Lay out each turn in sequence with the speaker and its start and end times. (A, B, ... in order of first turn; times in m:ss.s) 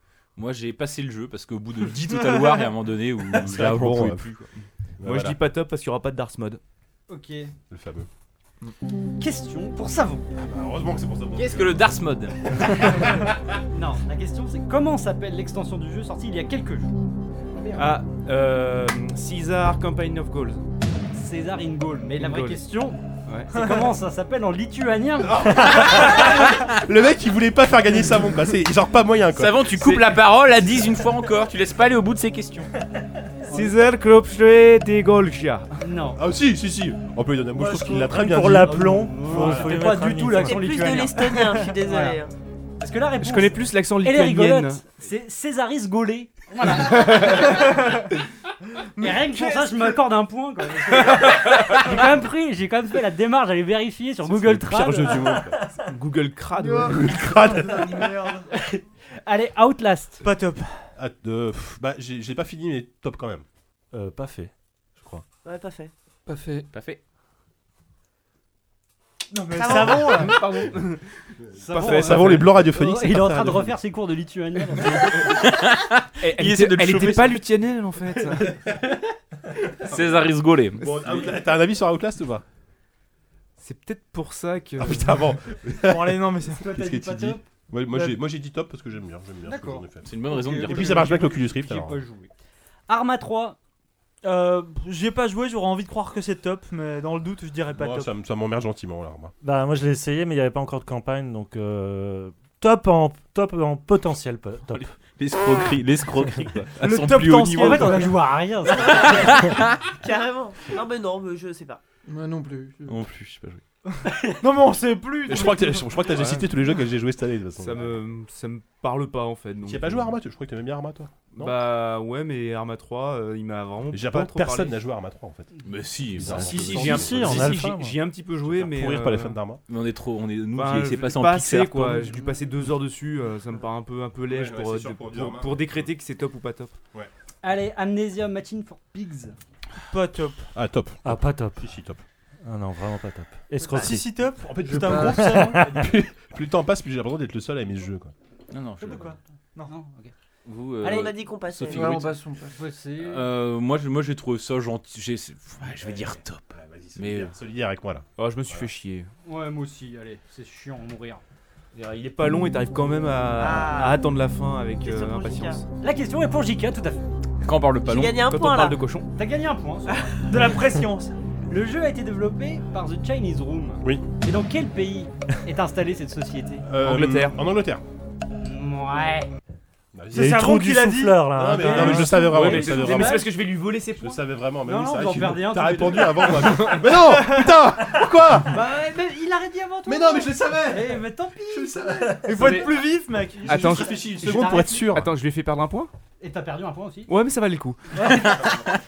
0:00.4-0:04.5 A
0:03.3-0:04.3 B
0:05.0-0:05.4 B
0:05.0-0:06.6 C
0:07.1-0:07.5 D
0:07.7-0:08.1 B
0:09.2-0:10.2 D
0:10.3-0:11.9 B
0:11.3-0:12.4 A
0:12.5-0:13.4 B
0:13.7-0:16.9 D
0:17.5-0:18.0 B
0:17.8-0:20.6 C
0:21.1-0:26.2 D
0:22.2-0:22.6 C
0:23.2-0:23.5 C
0:25.2-0:29.7 B
0:29.3-0:32.7 A
0:29.7-0:30.2 C
0:33.4-0:33.7 D
0:33.5-0:35.8 C
0:35.8-0:36.2 D
0:36.1-0:39.7 B
0:37.6-0:40.5 E
0:38.6-0:42.2 D
0:39.3-0:40.4 F
0:40.4-0:42.3 G
0:42.8-0:47.8 D
0:43.2-0:44.8 C
0:47.2-0:48.1 F
0:48.8-0:50.0 F
0:49.0-0:55.4 D
0:54.2-0:55.7 B
0:55.8-0:57.3 C
0:56.6-0:56.9 F
0:56.9-0:58.2 B
0:57.4-0:58.5 F
0:58.5-1:00.2 D
1:00.2-1:00.9 F
1:01.0-1:03.4 B
1:03.9-1:05.2 E
1:05.4-1:05.9 G
1:06.2-1:06.7 H
1:06.7-1:07.0 A
1:09.3-1:11.0 F
1:09.5-1:10.3 G
1:09.7-1:10.1 B
1:10.4-1:10.6 C
1:11.4-1:13.8 B
1:11.6-1:15.2 D
1:11.7-1:12.5 C
1:15.0-1:17.4 A
1:16.2-1:18.6 C
1:18.2-1:22.4 B
1:19.8-1:21.2 A
1:23.6-1:25.1 C
1:24.8-1:32.0 B
1:25.8-1:26.6 F
1:26.6-1:27.4 D
1:27.9-1:28.2 F
1:29.4-1:32.3 D
1:30.0-1:31.1 A
1:32.9-1:33.6 D
1:34.2-1:38.1 F
1:37.7-1:39.3 B
1:39.4-1:44.9 E
1:44.7-1:49.8 A
1:46.8-1:48.3 F
1:47.6-1:49.3 D
1:48.8-1:49.5 G
1:50.0-1:51.8 G
1:52.0-1:53.0 H
1:52.8-1:53.6 A
1:54.4-1:56.1 F
1:55.2-1:58.0 B
1:56.2-1:56.4 C
1:57.6-2:00.2 C
1:59.6-2:01.6 B
2:01.3-2:04.8 C
2:03.9-2:07.7 B
2:05.6-2:07.2 A
2:06.4-2:08.0 E
2:06.4-2:09.4 C
2:08.4-2:09.6 B
2:09.7-2:12.1 A
2:10.5-2:16.7 C
2:14.2-2:15.9 B
2:17.4-2:19.4 D
2:19.9-2:20.5 F
2:20.5-2:22.0 B
2:21.0-2:21.7 E
2:22.4-2:24.2 E
2:23.6-2:24.0 G
2:23.8-2:25.7 F
2:24.4-2:28.1 B
2:24.7-2:25.3 H
2:25.0-2:25.9 E
2:28.5-2:29.1 A
2:28.8-2:29.7 F
2:29.6-2:30.1 D
2:30.4-2:32.1 A
2:30.8-2:31.1 D
2:30.8-2:32.0 G
2:31.7-2:32.6 H
2:32.5-2:33.3 D
2:33.0-2:37.3 A
2:35.6-2:38.7 B
2:38.2-2:39.1 C
2:39.2-2:41.2 D
2:41.7-2:45.6 C
2:43.4-2:44.0 G
2:44.8-2:45.6 G
2:45.8-2:47.0 D
2:47.4-2:48.3 A
2:47.8-2:48.8 G
2:48.2-2:49.1 C
2:49.1-2:50.1 D
2:49.9-2:50.2 G
2:50.2-2:51.1 F
2:51.5-2:56.6 D
2:53.8-2:54.1 B
2:56.6-2:57.8 B
2:56.8-2:57.4 C
2:58.4-2:59.3 D
2:59.9-3:00.5 B
3:00.1-3:01.3 F
3:00.1-3:02.4 E
3:01.3-3:03.3 B
3:01.5-3:03.4 D
3:02.2-3:04.2 C
3:04.0-3:08.6 B
3:04.6-3:06.8 D
3:06.9-3:07.5 F
3:08.5-3:12.1 D
3:09.8-3:12.9 B
3:12.2-3:13.5 F
3:12.4-3:12.7 C
3:13.4-3:14.9 D
3:13.5-3:15.1 B
3:13.5-3:15.9 C
3:16.2-3:17.1 D
3:17.1-3:17.8 C
3:17.9-3:18.6 D
3:18.2-3:18.7 B